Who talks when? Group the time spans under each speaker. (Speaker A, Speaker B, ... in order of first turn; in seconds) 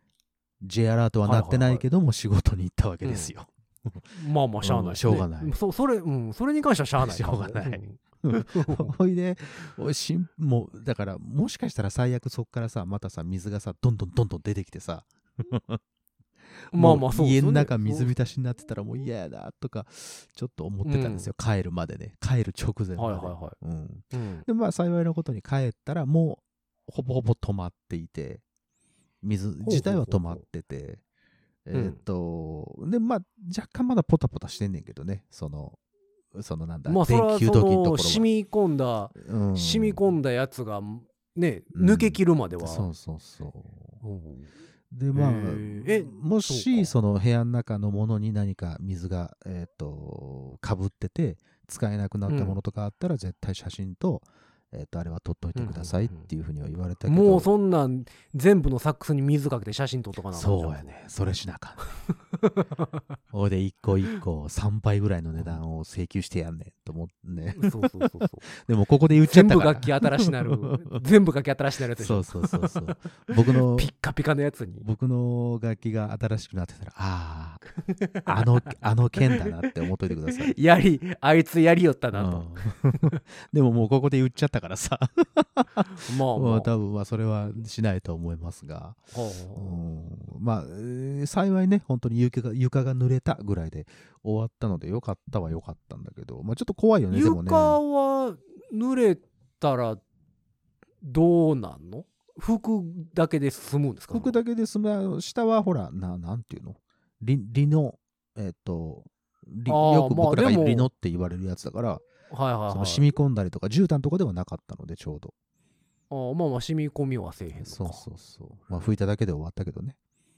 Speaker A: 0.6-4.0, 4.6-5.6, 7.0-15.8, 16.7-28.4, 29.2-31.0, 31.7-35.8, 36.3-38.3, 39.1-40.0, 41.7-44.0, 44.9-57.5, 60.3-61.8, 63.3-71.0, 72.0-73.9, 74.8-77.6, 78.2-80.5, 82.1-89.0, 89.5-97.8, 104.1-112.0, 112.7-115.3, 117.6-120.0
Speaker B: 1.2-1.9, 3.0-3.3, 4.1-8.9, 16.7-18.1, 20.9-21.3, 23.0-23.6, 24.1-24.5, 29.6-30.4, 31.7-32.0, 36.9-42.9, 44.0-44.5, 45.1-46.9, 52.3-52.6, 55.6-56.3, 57.1-60.9, 62.4-63.0, 67.5-68.5, 69.2-74.8, 77.9-78.4, 79.4-79.7, 80.3-83.2, 85.9-86.7, 89.1-89.8, 97.1-100.0, 101.0-104.4, 109.7-110.9, 112.3-113.0, 116.1-118.0